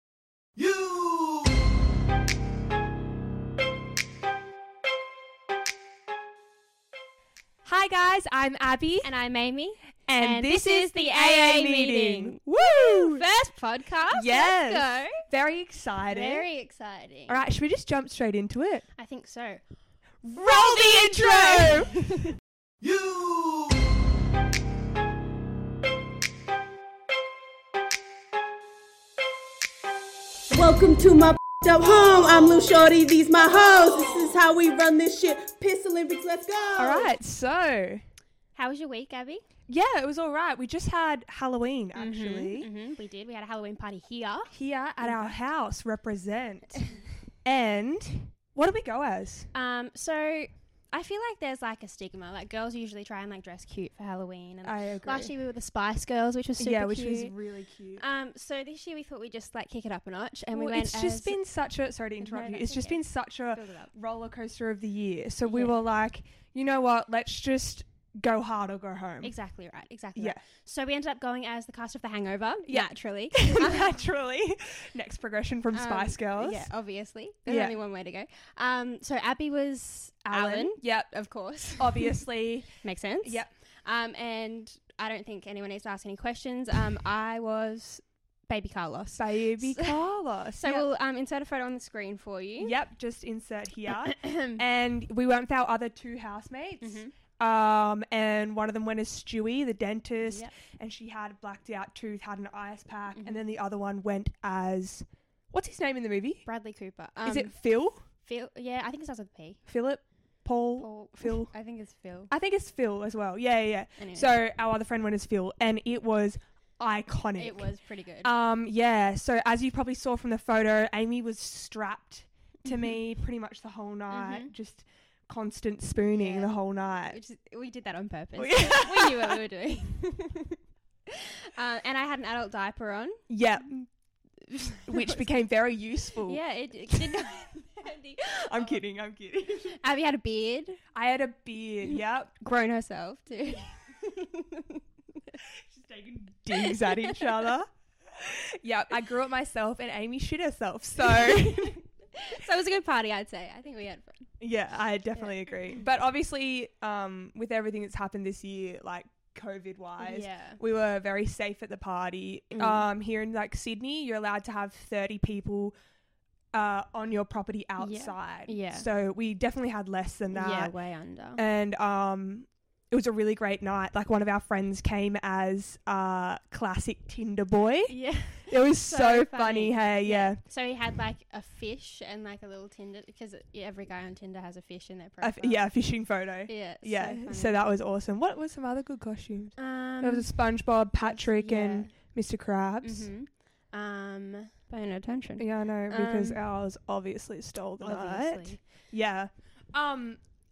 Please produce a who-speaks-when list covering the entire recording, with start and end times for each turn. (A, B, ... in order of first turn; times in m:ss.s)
0:00.6-0:00.8 A
0:07.6-0:09.1 B
0:09.0-0:15.2 C
0:10.1-0:13.2 B
0:14.1-0:16.5 B
0:16.1-0:17.4 C
0:17.3-0:18.8 B
0:19.0-0:19.6 C
0:20.2-0:21.9 B
0:20.3-0:22.3 C
0:30.5-0:37.1 A
0:36.8-0:38.0 B
0:38.6-0:39.4 C
0:39.7-0:42.7 B
0:42.0-0:45.3 C
0:44.5-0:46.9 B
0:47.4-0:49.5 B
0:49.5-0:57.3 C
0:54.6-0:55.3 B
0:56.6-0:58.0 B
0:58.0-1:01.4 C
1:00.5-1:09.3 B
1:02.2-1:03.0 C
1:03.5-1:03.9 C
1:05.5-1:05.8 C
1:09.2-1:13.9 C
1:10.2-1:10.4 B
1:12.7-1:16.7 B
1:15.7-1:22.2 C
1:17.5-1:17.8 B
1:20.3-1:21.1 B
1:21.8-1:22.7 B
1:22.8-1:30.0 C
1:23.2-1:23.5 B
1:29.2-1:30.9 B
1:30.6-1:32.8 C
1:32.6-1:46.5 B
1:33.9-1:34.6 C
1:36.8-1:37.1 C
1:40.2-1:40.5 C
1:43.2-1:43.4 C
1:46.5-1:47.6 C
1:47.2-1:48.0 B
1:48.2-1:49.6 C
1:49.7-1:51.5 B
1:50.8-1:52.3 C
1:52.3-1:57.7 B
1:54.0-1:54.3 C
1:57.4-1:58.3 C
1:58.2-2:07.2 B
2:02.6-2:02.9 C
2:04.1-2:04.5 C
2:06.1-2:13.2 C
2:08.4-2:09.4 B
2:13.3-2:13.9 B
2:14.5-2:15.4 C
2:14.9-2:17.2 B
2:16.3-2:18.7 C
2:18.4-2:19.8 B
2:19.7-2:20.8 C
2:20.9-2:22.4 B
2:21.9-2:25.4 C
2:25.6-2:31.8 B
2:26.5-2:27.3 C
2:31.0-2:34.3 C
2:34.4-2:45.8 B
2:35.1-2:35.8 C
2:40.0-2:40.6 C
2:42.5-2:42.9 C
2:46.5-2:50.7 B
2:47.8-2:48.9 C
2:50.3-2:51.4 C
2:51.4-3:00.4 B
2:57.9-3:05.7 C
3:05.2-3:13.1 B
3:06.5-3:07.6 C
3:09.6-3:10.3 C
3:11.0-3:11.9 C
3:12.8-3:16.4 C
3:15.4-3:20.2 B
3:17.8-3:18.6 C